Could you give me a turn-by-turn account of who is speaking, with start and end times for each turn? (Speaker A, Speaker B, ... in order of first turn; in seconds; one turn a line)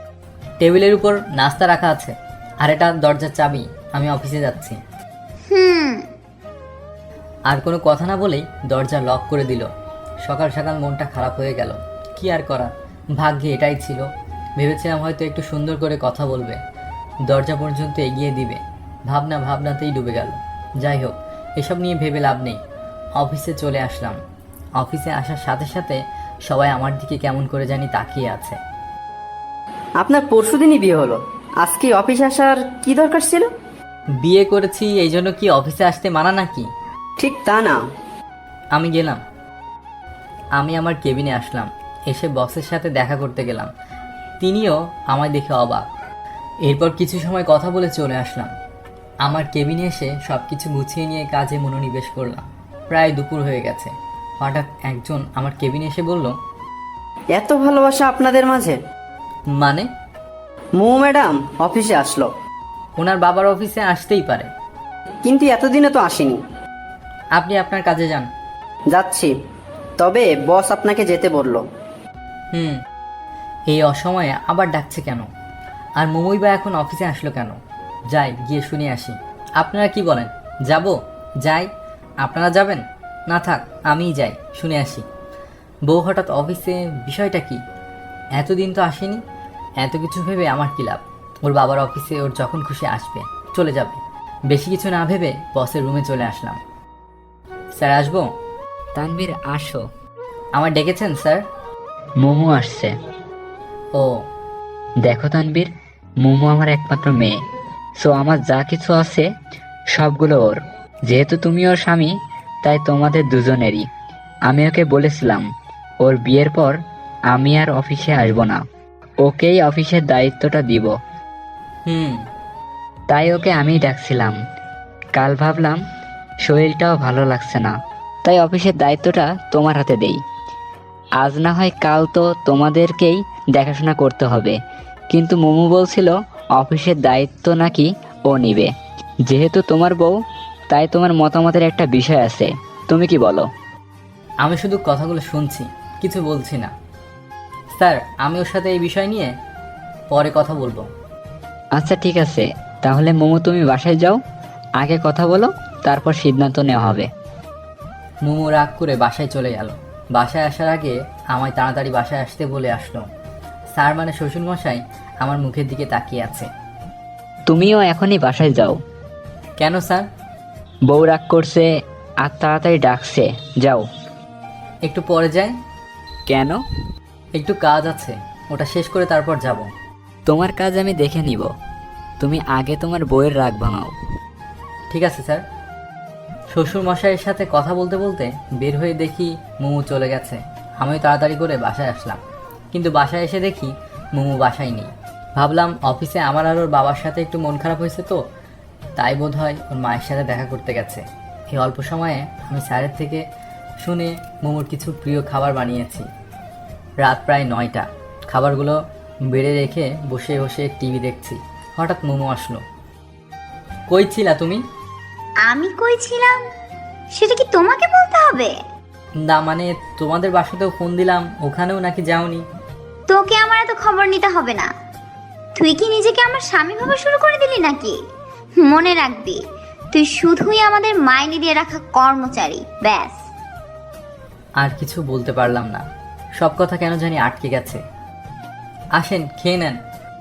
Speaker A: 0.6-4.8
Speaker B: 5.5-6.0
Speaker A: 7.5-9.7
Speaker A: 10.2-14.1
Speaker A: 14.6-16.6
Speaker A: 17.3-22.6
Speaker A: 23.2-24.2
Speaker A: 24.8-28.6
Speaker C: 30.0-33.5
Speaker A: 34.2-36.7
Speaker C: 37.2-37.8
Speaker A: 38.8-39.2
Speaker A: 40.6-43.7
Speaker A: 44.4-45.9
Speaker A: 46.7-48.5
Speaker A: 49.2-56.3
Speaker C: 57.3-58.8
Speaker A: 59.5-59.9
Speaker C: 60.8-62.3
Speaker A: 63.0-64.5
Speaker C: 65.2-66.4
Speaker A: 67.4-68.3
Speaker C: 68.9-69.3
Speaker C: 70.0-71.7
Speaker A: 72.5-72.8
Speaker A: 73.7-75.3
Speaker A: 76.0-77.6
Speaker A: 78.1-81.7
Speaker A: 82.2-85.1
Speaker A: 85.9-87.6
Speaker A: 88.4-89.2
Speaker A: 89.8-94.0
Speaker A: 94.5-96.6
Speaker A: 97.8-98.3
Speaker D: 99.0-99.8
Speaker A: 100.6-101.4
Speaker D: 102.2-102.9
Speaker D: 105.0-107.4
Speaker D: 108.0-109.3
Speaker D: 109.9-113.9
Speaker D: 114.5-115.5
Speaker D: 116.0-118.7
Speaker D: 119.2-120.9
Speaker A: 121.9-122.2
Speaker D: 123.1-124.4
Speaker D: 125.2-125.8
Speaker D: 126.5-130.2
Speaker D: 131.2-134.6
Speaker D: 135.1-138.7
Speaker D: 139.3-140.2
Speaker D: 140.7-143.5
Speaker A: 144.4-146.7
Speaker A: 147.7-149.3
Speaker A: 150.1-150.9
Speaker D: 151.7-154.2
Speaker D: 154.8-157.1
Speaker A: 158.2-163.0
Speaker A: 163.8-166.5
Speaker D: 167.5-168.8
Speaker A: 169.6-170.1
Speaker D: 170.9-171.7
Speaker D: 172.2-173.9
Speaker A: 174.9-175.6
Speaker D: 176.3-176.6
Speaker A: 177.4-179.7
Speaker D: 180.3-181.5
Speaker D: 182.2-183.9
Speaker A: 184.9-185.4
Speaker A: 186.5-192.2
Speaker A: 192.7-198.2
Speaker A: 199.0-203.2
Speaker A: 203.8-206.1
Speaker A: 207.0-208.8
Speaker A: 209.3-212.6
Speaker A: 213.9-214.6
Speaker B: 215.5-216.4
Speaker B: 217.2-218.5
Speaker A: 219.3-222.4
Speaker B: 223.1-224.7
Speaker B: 225.6-228.0
Speaker B: 228.6-229.4
Speaker B: 229.9-233.2
Speaker A: 234.6-235.8
Speaker A: 236.4-237.8
Speaker A: 239.0-239.8